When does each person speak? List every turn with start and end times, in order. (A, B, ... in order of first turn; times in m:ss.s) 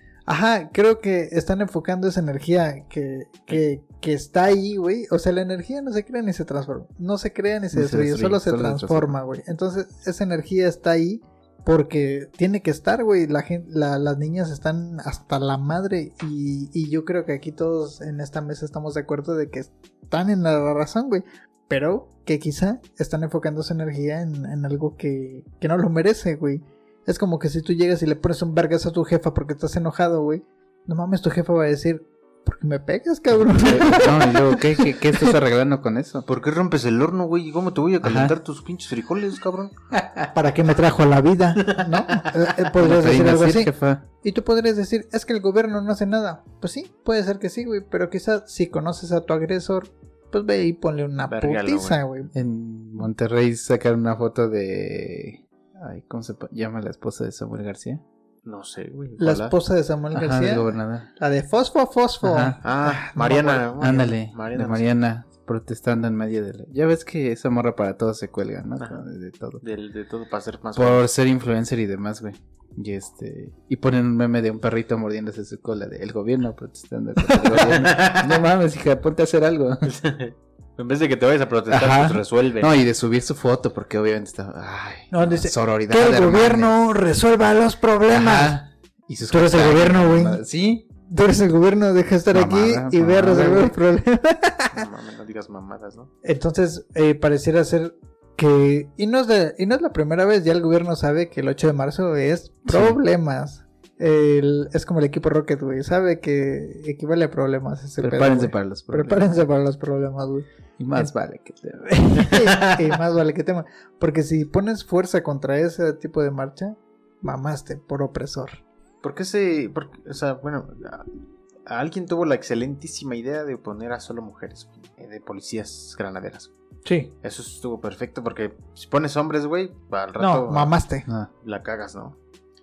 0:00.3-0:35.4 A
0:07.7-0:09.2 B
0:33.6-0:36.3 B
0:36.3-0:39.7 C
0:38.0-0:38.4 B
0:39.9-0:40.3 B
0:40.3-0:52.3 A
0:41.6-0:42.3 C
0:42.8-0:44.1 B
0:51.3-0:52.3 C
0:52.3-0:58.0 B
0:58.4-0:59.6 C
0:59.2-1:04.1 A
1:00.1-1:01.1 B
1:02.2-1:02.6 B
1:02.6-1:04.9 C
1:03.8-1:09.6 B
1:08.8-1:09.0 C
1:09.6-1:11.0 C
1:10.8-1:19.9 B
1:17.4-1:18.4 C
1:19.8-1:22.7 C
1:21.7-1:26.7 B
1:25.1-1:28.6 A
1:28.1-1:30.8 B
1:29.3-1:30.4 A
1:31.0-1:34.8 A
1:32.3-1:33.8 B
1:34.7-1:36.1 C
1:36.2-1:51.1 A
1:42.7-1:43.0 B
1:48.0-1:49.4 B
1:50.8-1:52.2 B
1:51.8-1:58.6 A
1:52.3-1:52.9 C
1:59.0-2:01.1 C
2:01.7-2:06.5 C
2:06.8-2:07.1 A
2:07.2-2:10.7 C
2:10.2-2:11.1 A
2:11.4-2:12.2 C